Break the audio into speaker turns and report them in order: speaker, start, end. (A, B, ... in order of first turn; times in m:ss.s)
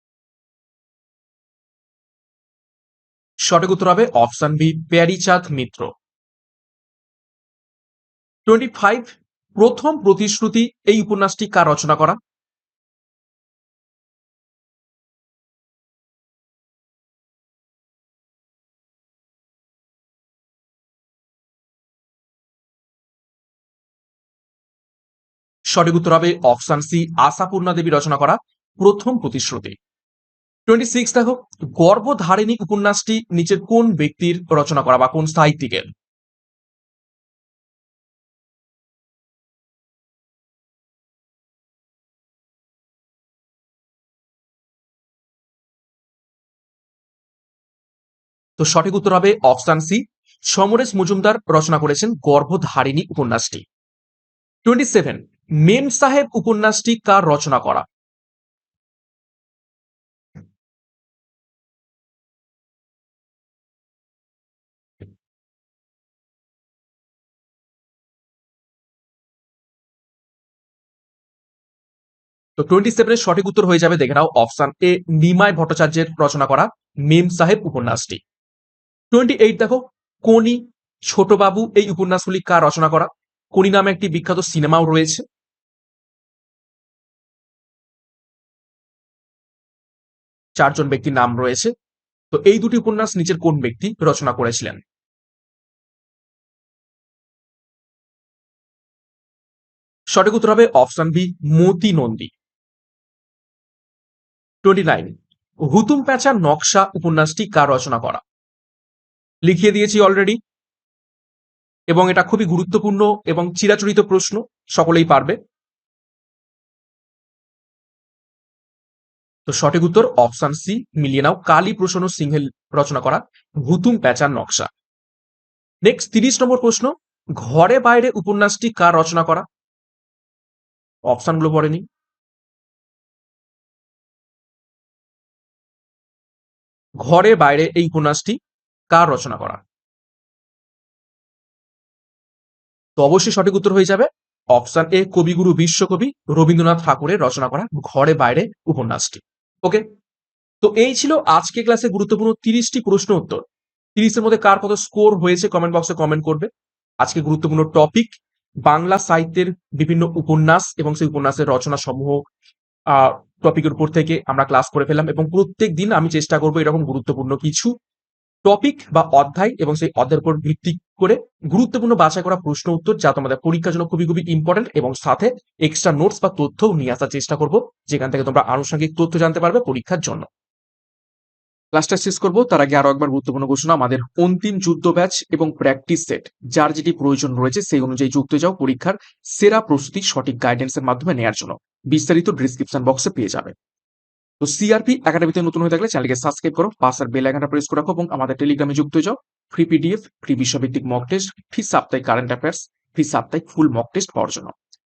0:03.4-0:05.9 A
0:08.5-0:12.2 A
0:25.7-0:29.8 A
0:30.7-0:35.9 A
0:48.6-0:53.6 A
0:54.6-0:57.8 A
1:12.6-1:18.2 A
1:19.1-1:25.2 A
1:30.6-1:31.7 A
1:32.3-1:34.8 A
1:40.1-1:42.3 A
1:44.6-1:45.1 A
1:45.7-1:48.2 A
1:49.4-1:50.4 A
1:51.9-1:55.4 A
1:59.5-2:04.7 A
2:05.8-2:09.4 A
2:11.1-2:11.8 A
2:17.0-2:18.4 A
2:18.9-2:19.6 A
2:23.0-2:29.8 A
2:30.6-2:33.4 A
2:33.9-2:36.5 A
2:37.0-2:38.1 A
2:38.6-2:42.2 A
2:42.9-2:47.7 A
2:48.4-3:00.3 A
3:01.7-3:13.5 A
3:14.4-3:24.5 A